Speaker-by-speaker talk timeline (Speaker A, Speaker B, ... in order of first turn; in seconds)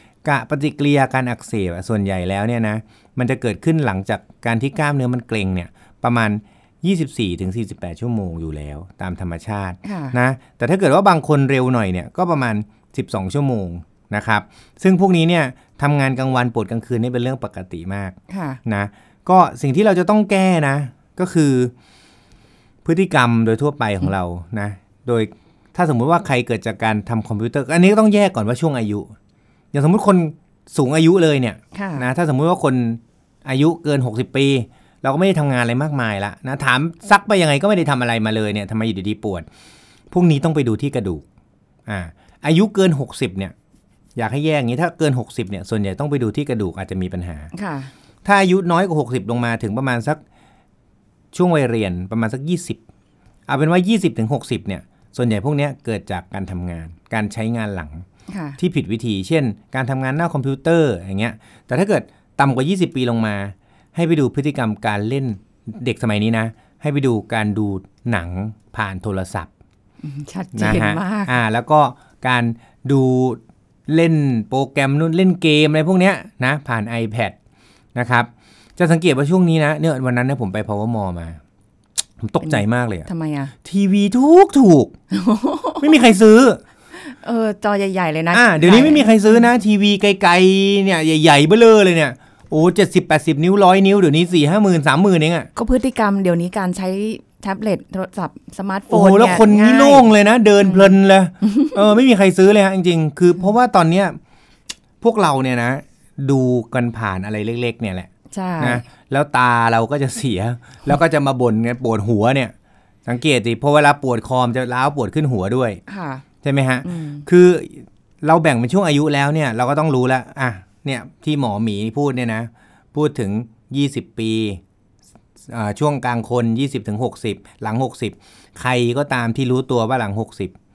Speaker A: 0.2-21.7, 22.9-29.1, 29.7-39.5, 40.1-41.2, 41.9-43.5, 44.2-47.5, 48.2-50.2, 51.3-52.8, 53.5-58.0, 58.6-69.5, 70.5-77.4, 78.0-81.4, 82.2-83.1, 83.6-84.9, 85.8-86.6, 88.3-95.5, 98.9-104.2, 105.0-112.5, 113.1-115.8, 116.4-124.6, 125.5-130.5
Speaker B: 9.8-10.2, 18.3-18.6, 31.7-32.1, 47.5-47.9, 58.3-58.6, 70.0-71.3, 82.4-83.5, 85.1-85.9, 87.0-89.5, 95.6-100.1, 100.6-100.9, 101.5-101.7, 108.3-108.8, 115.9-116.2, 116.8-117.2